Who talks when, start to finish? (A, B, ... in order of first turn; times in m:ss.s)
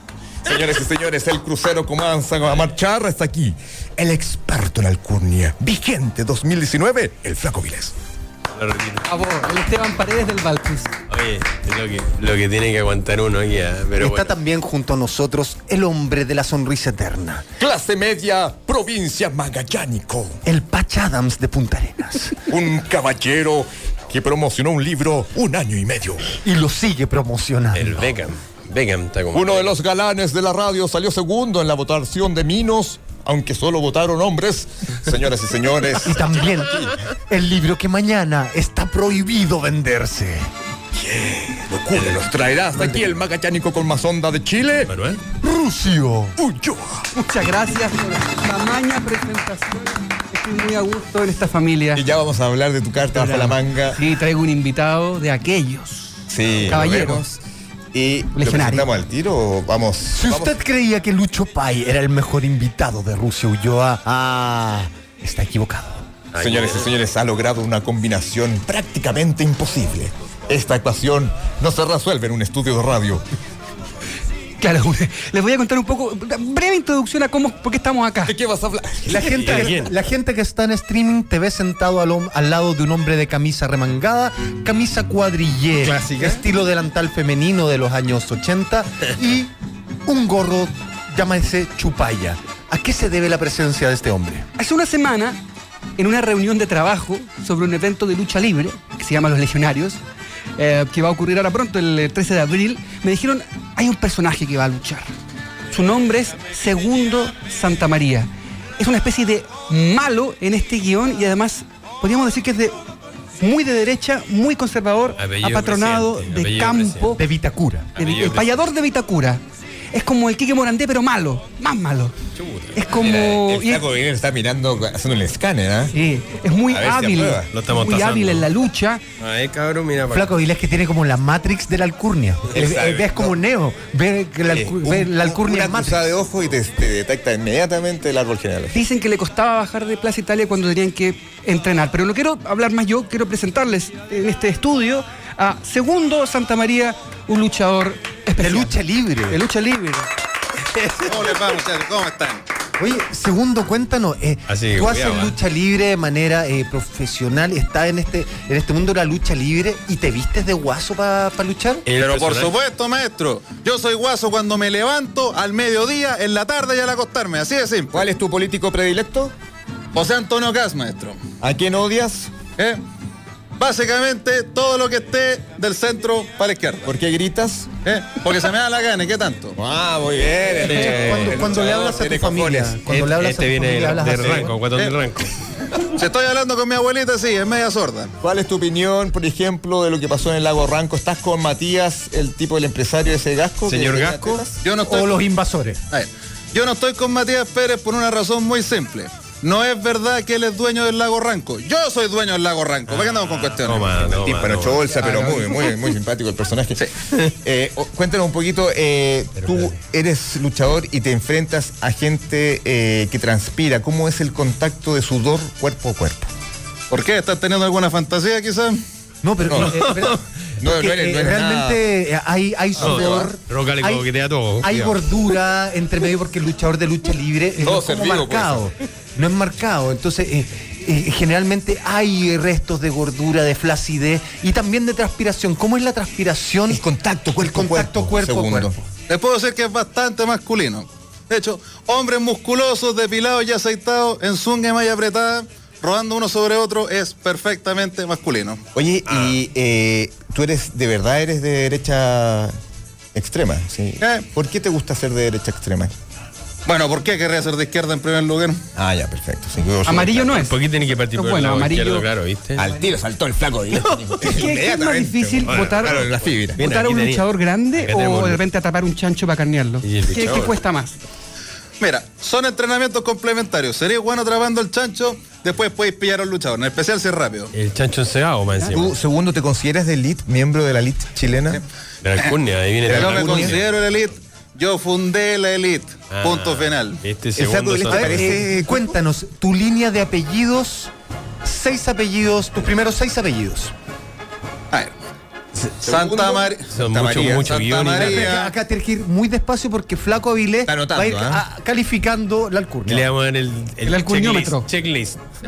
0:00.4-0:07.9 A
0:08.5-0:09.2 B
0:09.0-0:11.0 C
0:11.1-0:14.3 B
0:14.0-0:17.4 D
0:17.6-0:20.4 A
0:20.4-0:22.4 D
0:22.5-0:26.3 A
0:26.4-0:28.0 D
0:27.7-0:29.8 B
0:29.3-0:36.9 A
0:36.0-0:40.5 D
0:40.9-0:44.9 A
0:41.9-0:42.2 B
0:44.9-0:45.2 B
0:45.4-0:46.4 D
0:46.4-0:47.1 A
0:47.1-0:52.0 C
0:51.9-0:54.0 A
0:53.1-0:57.2 C
0:56.3-0:57.4 A
0:57.9-1:00.6 A
0:58.3-0:58.9 C
1:00.1-1:06.0 D
1:06.3-1:06.9 B
1:06.3-1:13.2 A
1:14.6-1:18.3 C
1:18.2-1:19.8 A
1:19.1-1:29.5 D
1:19.3-1:19.9 B
1:25.8-1:26.4 B
1:30.0-1:34.5 D
1:34.6-1:35.4 C
1:36.0-1:40.0 C
1:40.6-1:45.1 C
1:45.7-1:52.8 C
1:53.4-1:57.2 C
1:55.2-1:57.1 B
1:57.2-1:57.9 D
1:58.0-1:58.6 B
1:58.0-2:02.2 C
2:02.3-2:02.8 B
2:02.7-2:03.8 C
2:02.9-2:05.9 A
2:05.9-2:09.0 C
2:06.7-2:07.5 A
2:07.5-2:08.5 B
2:09.2-2:10.4 B
2:10.1-2:16.1 D
2:12.5-2:13.4 A
2:14.5-2:18.8 A
2:18.7-2:28.8 C
2:28.4-2:29.4 D
2:29.3-2:30.1 C
2:31.0-2:32.4 E
2:32.8-2:41.8 D
2:34.5-2:35.4 B
2:41.9-2:42.6 B
2:42.0-2:47.9 E
2:47.9-2:49.3 A
2:49.9-2:51.2 E
2:51.4-2:52.3 A
2:53.6-2:56.9 E
2:56.8-2:57.7 A
2:57.8-2:59.6 E
2:59.5-3:02.8 A
3:00.6-3:01.7 B
3:00.6-3:04.5 D
3:02.8-3:05.3 B
3:04.7-3:05.0 E
3:05.9-3:08.1 E
3:08.2-3:14.6 A
3:13.7-3:14.4 B
3:14.6-3:15.2 E
3:14.8-3:15.8 D
3:15.9-3:24.1 E
3:22.9-3:25.3 B
3:24.0-3:36.3 A
3:29.4-3:29.8 B
3:36.9-3:38.8 E
3:39.2-3:44.1 D
3:39.4-3:40.1 A
3:39.6-3:40.2 B
3:40.6-3:41.8 A
3:42.8-3:43.3 A
3:42.8-3:45.0 B
3:44.6-3:56.8 D
3:47.6-3:48.7 A
3:56.7-3:58.8 A
3:57.4-3:58.8 D
3:59.1-4:08.6 E
4:08.7-4:12.6 A
4:09.1-4:09.4 B
4:13.1-4:15.9 A
4:14.0-4:14.2 E
4:16.6-4:18.6 E
4:18.7-4:20.5 A
4:19.8-4:22.1 C
4:20.3-4:22.7 B
4:22.5-4:26.6 A
4:24.2-4:26.0 C
4:25.4-4:28.4 B
4:26.6-4:31.0 C
4:29.8-4:30.6 B
4:31.8-4:37.5 E
4:37.5-4:38.9 B
4:38.7-4:41.6 A
4:42.0-4:44.1 B
4:42.2-4:47.0 E
4:42.8-4:43.6 A
4:46.1-4:48.3 B
4:47.4-4:48.9 A
4:47.9-4:50.9 D
4:51.4-4:53.7 D
4:55.6-4:57.6 A
4:55.8-4:56.7 E
4:56.7-4:58.3 B
4:57.2-4:58.5 E
4:57.9-5:03.1 D
5:00.6-5:01.4 A
5:02.8-5:05.2 B
5:03.8-5:04.7 C